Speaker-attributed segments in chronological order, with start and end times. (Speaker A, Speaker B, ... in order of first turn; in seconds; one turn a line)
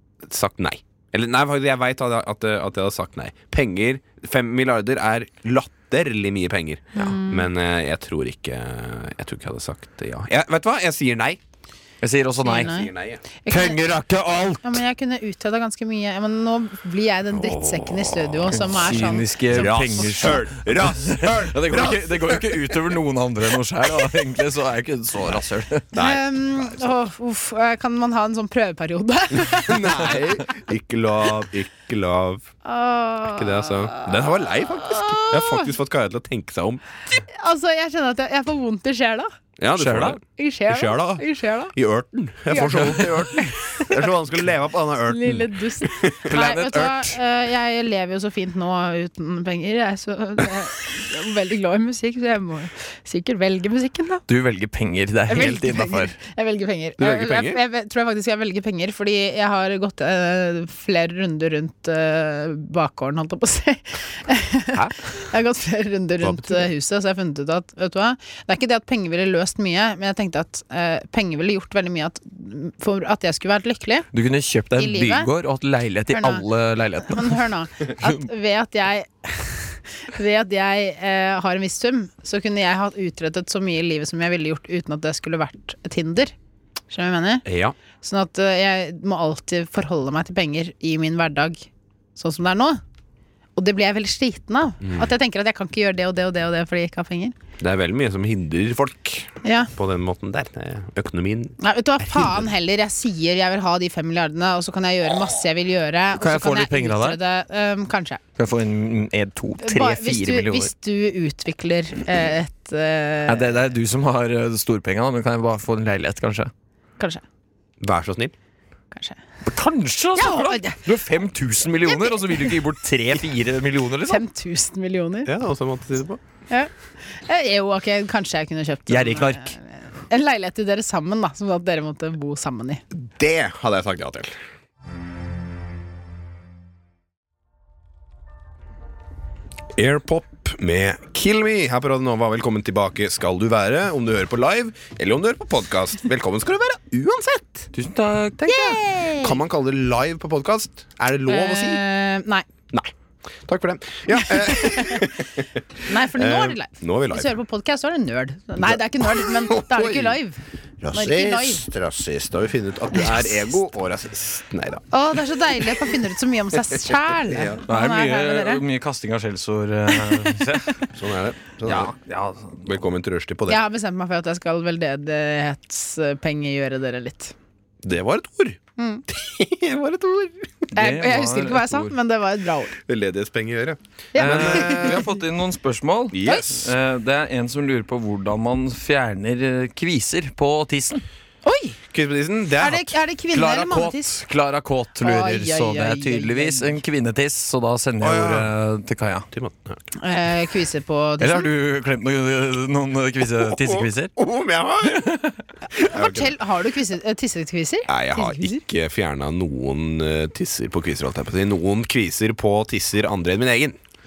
Speaker A: 0.2-11.4
Speaker B: 6.9-7.5
Speaker C: 12.0-12.9
Speaker B: 12.4-12.9
Speaker A: 12.7-13.2
Speaker B: 13.4-13.8
Speaker C: 13.5-14.8
Speaker B: 14.6-20.3
Speaker A: 17.3-18.7
Speaker C: 18.5-25.9
Speaker A: 19.5-22.7
Speaker A: 25.9-26.9
Speaker B: 25.9-30.2
Speaker A: 29.5-32.5
Speaker B: 32.6-35.7
Speaker A: 33.3-36.8
Speaker B: 37.3-39.3
Speaker A: 39.6-46.3
Speaker C: 39.8-40.2
Speaker B: 40.4-41.7
Speaker B: 42.5-44.1
Speaker B: 45.1-54.2
Speaker C: 46.2-47.2
Speaker C: 54.3-56.1
Speaker B: 55.3-74.1
Speaker A: 57.0-57.6
Speaker A: 66.2-66.7
Speaker C: 74.1-77.4
Speaker B: 74.8-75.3
Speaker B: 76.1-76.4
Speaker B: 77.0-86.3
Speaker B: 86.9-87.4
Speaker A: 87.4-87.7
Speaker B: 88.0-92.8
Speaker B: 93.6-97.3
Speaker A: 97.6-102.5
Speaker B: 99.4-99.7
Speaker B: 101.6-108.2
Speaker C: 106.1-107.2
Speaker C: 108.4-110.7
Speaker B: 109.6-113.5
Speaker C: 113.3-116.5
Speaker A: 117.8-118.3
Speaker B: 118.9-119.2
Speaker C: 119.4-124.2
Speaker B: 120.2-120.9
Speaker B: 121.9-122.5
Speaker B: 124.1-125.3
Speaker A: 125.2-126.2
Speaker B: 126.5-132.8
Speaker C: 128.9-129.5
Speaker A: 132.9-134.4
Speaker A: 139.7-147.7
Speaker C: 147.7-148.8
Speaker B: 148.4-149.4
Speaker A: 149.2-151.8
Speaker B: 151.3-152.4
Speaker A: 153.5-157.3
Speaker B: 154.2-155.1
Speaker B: 155.9-160.4
Speaker A: 158.6-160.2
Speaker A: 160.8-164.8
Speaker B: 160.9-161.7
Speaker B: 162.9-163.3
Speaker B: 164.9-168.6
Speaker A: 167.2-167.6
Speaker C: 167.7-170.8
Speaker B: 170.1-170.4
Speaker A: 170.9-171.9
Speaker C: 171.6-172.6
Speaker A: 172.6-173.6
Speaker B: 173.5-177.3
Speaker A: 177.8-178.6
Speaker B: 178.8-179.1
Speaker A: 179.1-180.3
Speaker B: 180.2-182.8
Speaker C: 180.7-181.9
Speaker A: 182.9-185.1
Speaker B: 184.1-185.1
Speaker C: 184.2-191.0
Speaker A: 186.1-186.7
Speaker B: 186.2-186.5
Speaker B: 191.4-191.8
Speaker A: 191.9-192.9
Speaker B: 192.6-194.1
Speaker C: 193.3-199.3
Speaker B: 195.0-196.8
Speaker A: 198.0-198.5
Speaker A: 199.3-199.8
Speaker B: 199.9-201.5
Speaker C: 201.2-204.1
Speaker A: 203.4-205.1
Speaker C: 204.9-205.3
Speaker A: 205.7-206.4
Speaker B: 205.8-208.6
Speaker A: 207.9-213.8